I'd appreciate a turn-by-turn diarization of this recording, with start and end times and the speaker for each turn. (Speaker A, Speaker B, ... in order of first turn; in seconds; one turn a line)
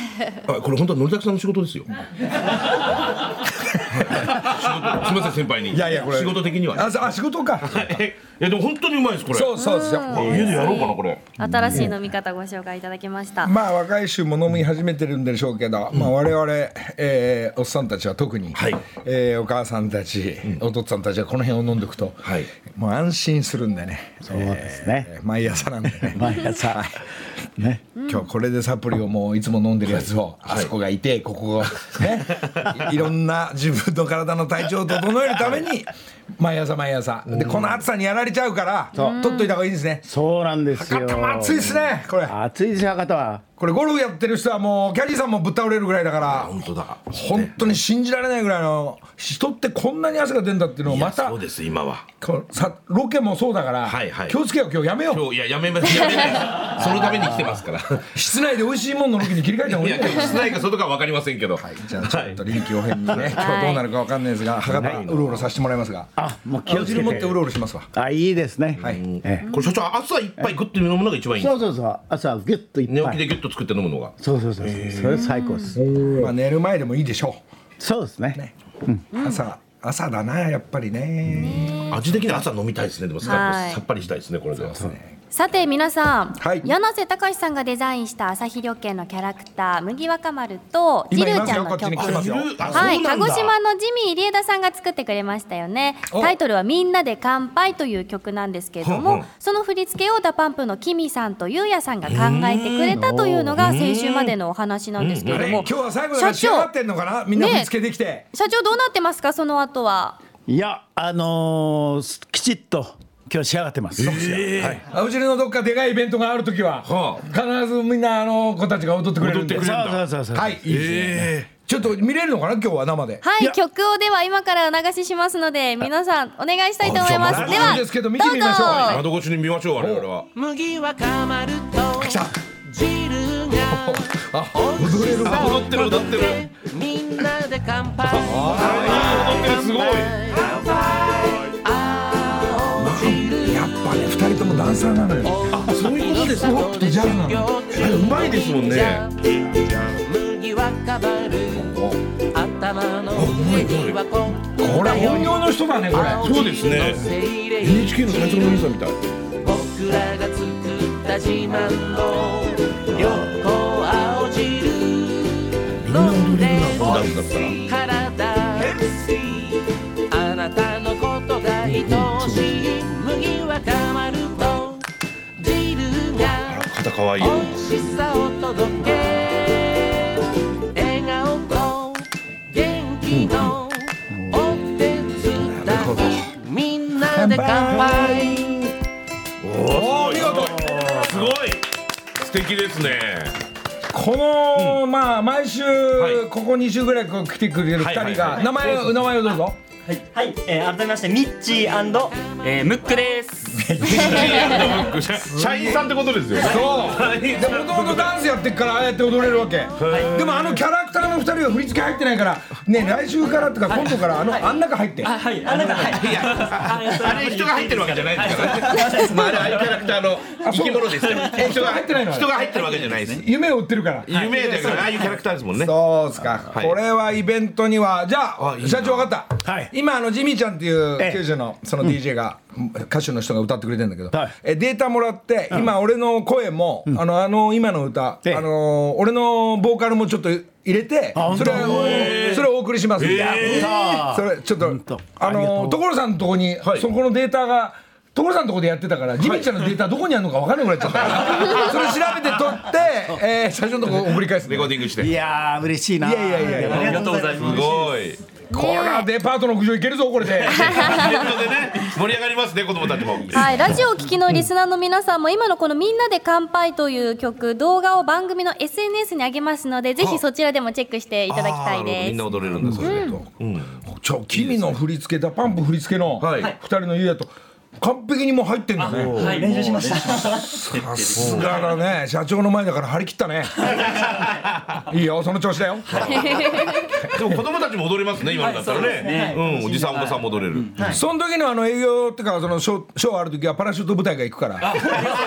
Speaker A: 0.5-1.9
Speaker B: 4.0-4.3
Speaker A: 4.0-7.1
Speaker B: 5.7-7.8
Speaker A: 7.6-9.6
Speaker B: 9.3-10.7
Speaker C: 9.6-13.5
Speaker A: 10.1-11.4
Speaker D: 11.4-11.9
Speaker B: 13.4-26.9
Speaker A: 18.5-18.8
Speaker D: 24.2-25.1
Speaker D: 25.9-26.9
Speaker D: 27.6-27.8
Speaker B: 28.0-40.0
Speaker A: 30.4-30.7
Speaker A: 37.3-37.8
Speaker C: 38.9-39.5
Speaker D: 40.0-43.4
Speaker B: 40.7-42.3
Speaker B: 43.6-46.6
Speaker A: 46.2-47.6
Speaker B: 47.1-51.4
Speaker A: 50.9-52.0
Speaker B: 52.2-55.2
Speaker A: 53.9-54.4
Speaker A: 55.1-58.1
Speaker D: 56.8-57.5
Speaker B: 58.1-60.4
Speaker A: 59.7-63.3
Speaker B: 61.6-66.1
Speaker C: 63.3-63.8
Speaker A: 64.6-65.5
Speaker D: 66.2-69.5
Speaker B: 66.7-67.9
Speaker A: 68.8-71.6
Speaker D: 71.4-73.2
Speaker A: 72.9-75.2
Speaker D: 74.2-76.3
Speaker C: 75.1-75.7
Speaker B: 76.2-77.4
Speaker D: 77.8-79.0
Speaker C: 79.1-79.4
Speaker B: 79.1-82.2
Speaker C: 81.4-82.0
Speaker A: 81.9-84.8
Speaker C: 83.2-83.8
Speaker B: 84.6-85.0
Speaker C: 85.3-92.2
Speaker B: 86.4-86.7
Speaker B: 91.1-92.9
Speaker A: 92.0-93.5
Speaker D: 92.6-93.0
Speaker C: 92.7-106.7
Speaker B: 96.1-96.3
Speaker A: 98.8-99.3
Speaker A: 102.0-102.9
Speaker D: 102.9-103.6
Speaker A: 103.6-104.3
Speaker A: 105.0-105.7
Speaker B: 105.3-108.2
Speaker C: 107.3-107.7
Speaker C: 108.3-110.2
Speaker D: 110.5-114.4
Speaker A: 114.0-114.8
Speaker B: 114.0-119.7
Speaker A: 116.8-117.2
Speaker A: 119.2-120.0
Speaker D: 119.5-121.2
Speaker B: 120.3-123.2
Speaker A: 120.7-121.5
Speaker C: 123.2-129.0
Speaker A: 126.8-127.8
Speaker B: 127.3-129.0
Speaker A: 128.8-130.3
Speaker B: 129.8-130.1
Speaker E: 130.3-134.0
Speaker B: 132.0-132.4
Speaker B: 133.7-135.8
Speaker E: 134.5-143.8
Speaker A: 135.2-136.5
Speaker B: 138.0-139.5
Speaker A: 138.4-140.1
Speaker B: 142.8-145.4
Speaker E: 145.2-151.7
Speaker A: 145.5-146.8
Speaker B: 146.1-147.5
Speaker A: 147.7-149.1
Speaker B: 151.5-152.0
Speaker E: 152.3-158.6
Speaker A: 153.1-154.0
Speaker B: 154.6-156.5
Speaker A: 155.9-157.1
Speaker A: 157.6-159.0
Speaker E: 159.4-169.5
Speaker A: 162.9-163.3
Speaker A: 165.8-167.6
Speaker E: 170.1-174.8
Speaker A: 171.8-172.5
Speaker E: 175.4-176.7
Speaker A: 176.5-177.6
Speaker E: 177.2-180.1
Speaker E: 180.7-188.7
Speaker D: 184.1-184.3
Speaker B: 185.4-186.3
Speaker B: 187.1-188.4
Speaker A: 189.4-191.6
Speaker B: 189.7-190.7
Speaker D: 190.2-191.3
Speaker A: 192.2-193.3
Speaker B: 193.9-199.6
Speaker A: 195.9-196.2
Speaker A: 197.8-198.5
Speaker F: 199.9-203.7
Speaker B: 203.6-204.5
Speaker A: 203.8-208.1
Speaker B: 205.3-205.8
Speaker B: 206.4-215.1
Speaker F: 206.4-206.9
Speaker A: 209.8-210.6
Speaker F: 209.9-210.1
Speaker F: 215.0-219.8
Speaker A: 215.8-223.2
Speaker B: 220.4-222.3
Speaker B: 223.1-224.8
Speaker A: 224.1-225.7
Speaker B: 225.6-254.8
Speaker A: 228.4-229.1
Speaker D: 229.4-229.7
Speaker D: 231.0-231.2
Speaker D: 241.1-242.3
Speaker A: 241.3-243.9
Speaker D: 243.0-245.8
Speaker A: 254.4-255.1
Speaker D: 255.0-257.5
Speaker B: 256.0-257.1
Speaker F: 256.5-258.1
Speaker A: 257.3-258.2
Speaker B: 258.5-261.0
Speaker C: 258.5-259.1
Speaker A: 260.6-263.7
Speaker C: 260.6-261.3
Speaker C: 263.3-273.2
Speaker A: 270.0-270.2
Speaker A: 271.3-273.8
Speaker B: 272.6-273.2
Speaker B: 273.9-279.4
Speaker A: 274.3-274.8
Speaker A: 276.2-276.5
Speaker F: 278.8-281.8
Speaker A: 278.9-279.6
Speaker D: 279.6-279.8
Speaker B: 280.0-283.6
Speaker A: 281.1-281.5
Speaker B: 284.9-286.0
Speaker A: 285.9-286.5
Speaker C: 286.1-286.8
Speaker A: 287.1-291.0
Speaker F: 288.3-291.0
Speaker B: 290.9-294.9